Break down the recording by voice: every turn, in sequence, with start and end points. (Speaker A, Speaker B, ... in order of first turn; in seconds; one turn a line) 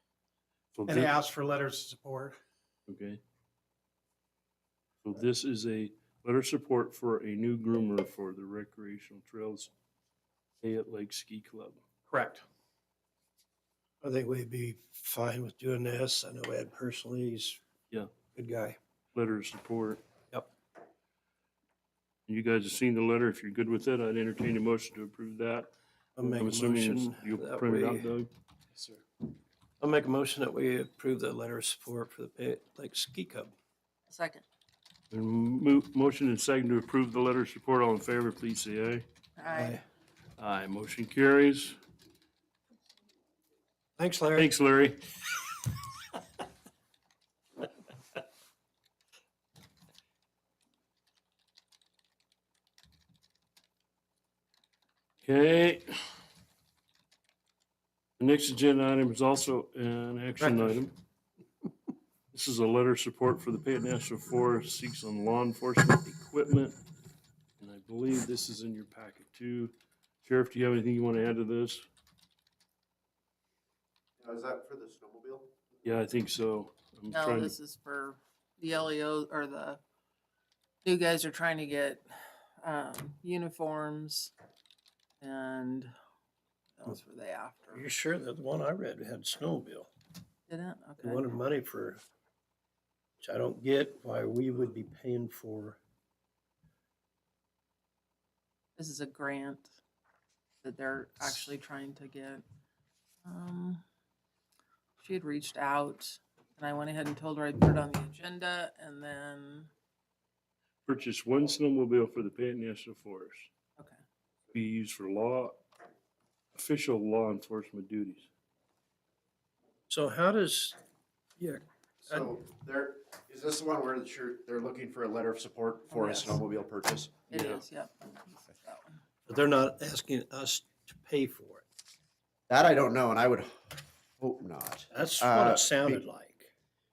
Speaker A: 0.7-1.1
Speaker B: 0.8-2.4
Speaker A: 2.9-3.2
Speaker A: 5.0-9.7
Speaker A: 10.6-11.8
Speaker B: 12.1-12.4
Speaker C: 14.0-17.6
Speaker C: 18.3-18.8
Speaker A: 19.1-20.0
Speaker A: 22.3-29.0
Speaker C: 26.2-28.2
Speaker C: 29.8-33.5
Speaker D: 34.1-34.4
Speaker A: 35.1-39.0
Speaker D: 39.4-39.8
Speaker C: 39.5-39.8
Speaker A: 40.4-41.8
Speaker C: 44.0-44.5
Speaker A: 44.4-45.0
Speaker A: 55.2-55.9
Speaker A: 58.2-60.9
Speaker C: 60.4-60.7
Speaker A: 62.3-66.8
Speaker A: 67.6-71.9
Speaker E: 74.2-75.5
Speaker A: 75.8-77.5
Speaker D: 77.1-79.8
Speaker D: 80.8-84.3
Speaker D: 85.2-85.9
Speaker D: 86.8-87.9
Speaker C: 87.7-89.9
Speaker D: 90.5-91.3
Speaker C: 91.0-92.0
Speaker C: 93.2-95.8
Speaker D: 98.8-99.8
Speaker D: 100.6-102.4
Speaker D: 103.2-103.8
Speaker D: 105.0-109.7
Speaker A: 110.8-113.5
Speaker A: 114.5-115.6
Speaker A: 116.5-118.3
Speaker C: 119.9-120.8
Speaker C: 121.4-122.3
Speaker E: 122.0-127.2
Speaker D: 125.9-126.4
Speaker D: 127.3-129.0
Speaker A: 127.3-127.6
Speaker C: 129.3-131.6
Speaker E: 132.5-136.0
Speaker C: 134.9-136.5